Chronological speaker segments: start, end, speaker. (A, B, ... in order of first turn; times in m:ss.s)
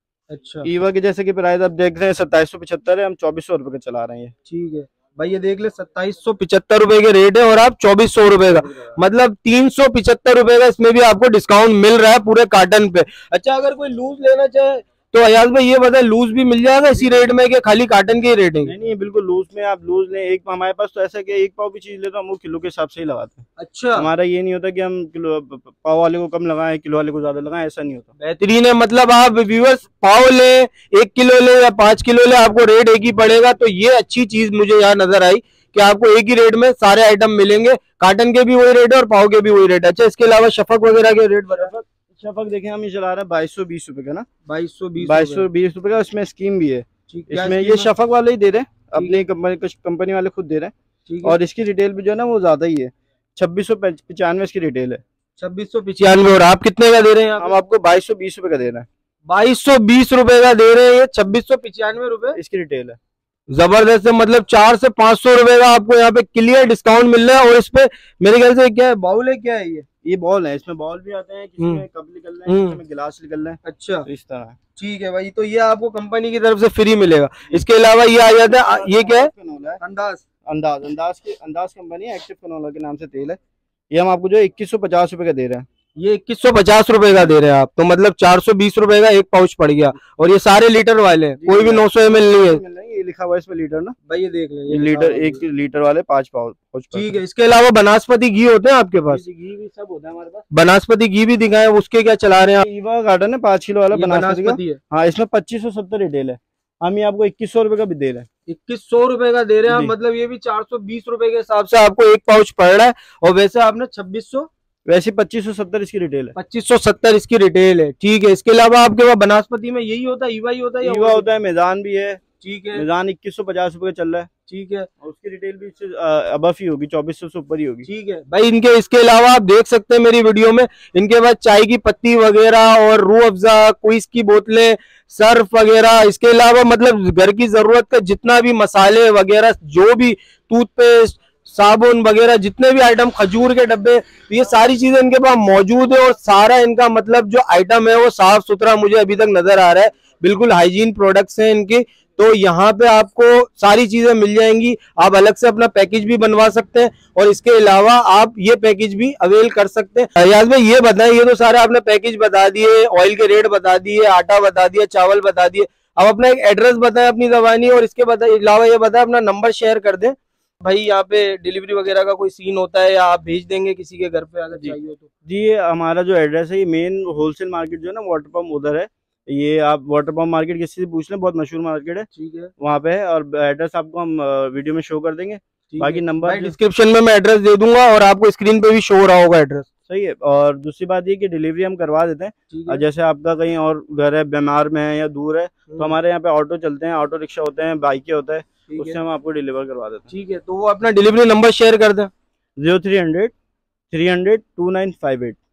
0:00.3-0:00.7 A
0:00.6-0:04.3 B
0:04.5-0:18.7 A
0:18.6-0:28.1 B
0:23.6-0:24.1 A
0:28.2-0:41.7 A
0:41.5-0:44.3 B
0:44.4-0:45.5 A
0:45.0-0:50.7 B
0:47.1-0:47.9 A
0:48.9-0:49.2 A
0:51.1-0:51.4 A
0:51.2-0:55.0 B
0:55.4-0:57.6 A
0:57.4-0:58.8 B
0:59.3-1:02.4 A
1:02.3-1:03.0 B
1:03.5-1:09.8 A
1:10.0-1:14.6 B
1:11.6-1:11.8 A
1:12.5-1:12.8 A
1:13.6-1:14.1 A
1:14.8-1:20.2 A
1:18.3-1:19.8 B
1:20.4-1:23.4 B
1:23.9-1:25.6 B
1:26.0-1:32.6 A
1:31.4-1:34.0 B
1:34.1-1:35.4 A
1:34.7-1:37.1 B
1:36.9-1:39.2 A
1:39.1-1:40.4 B
1:40.5-1:42.6 A
1:42.6-1:48.3 B
1:43.9-1:44.8 A
1:48.5-1:54.5 A
1:49.7-1:49.9 B
1:54.9-1:56.3 B
1:56.4-2:01.2 A
2:00.8-2:02.2 B
2:02.4-2:02.8 A
2:02.7-2:04.3 B
2:04.5-2:04.9 A
2:05.0-2:07.9 B
2:07.9-2:55.0 A
2:54.5-3:02.1 B
3:02.1-3:02.5 A
3:02.6-3:06.5 B
3:05.7-3:09.7 A
3:09.9-3:20.1 B
3:12.5-3:12.8 A
3:18.7-3:19.0 A
3:20.1-3:22.1 A
3:22.6-3:23.3 B
3:23.9-3:25.4 B